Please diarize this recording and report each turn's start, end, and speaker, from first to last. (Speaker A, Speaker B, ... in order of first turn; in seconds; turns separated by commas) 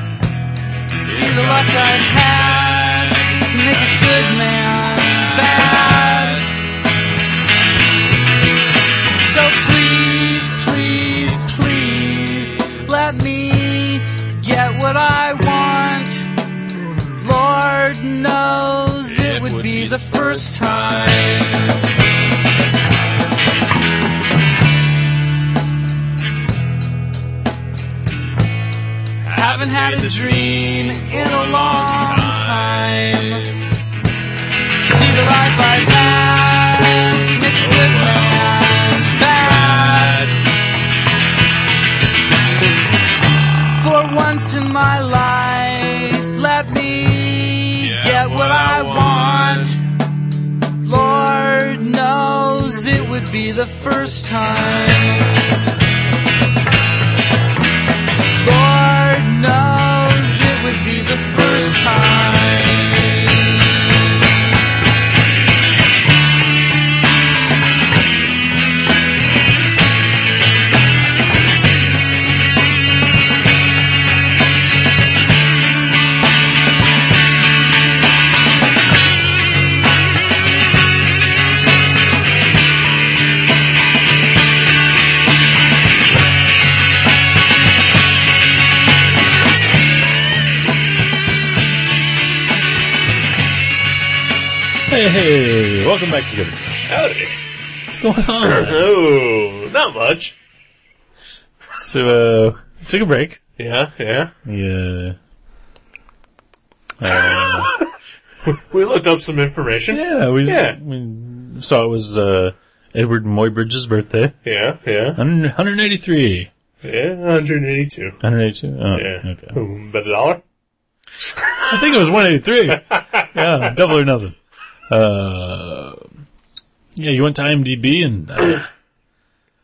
Speaker A: 0.9-6.5, Speaker A: 9.2-16.3, Speaker A: 17.2-21.8, Speaker A: 29.2-33.5, Speaker A: 34.8-40.4, Speaker A: 43.7-49.8, Speaker A: 50.8-55.4, Speaker A: 58.4-63.6, Speaker B: 94.9-96.9, Speaker C: 96.9-97.4, Speaker B: 97.9-98.9, Speaker C: 98.4-100.3, Speaker B: 101.7-103.4, Speaker C: 103.6-104.3, Speaker B: 104.5-105.2, Speaker B: 107.0-107.7, Speaker C: 107.1-107.8, Speaker C: 108.4-110.8, Speaker B: 109.9-114.4, Speaker C: 114.4-115.2, Speaker B: 115.2-116.5, Speaker C: 116.8-118.2, Speaker B: 118.2-119.6, Speaker C: 118.9-120.4, Speaker B: 121.7-124.3, Speaker C: 122.9-123.3, Speaker B: 124.9-126.0, Speaker B: 127.0-128.7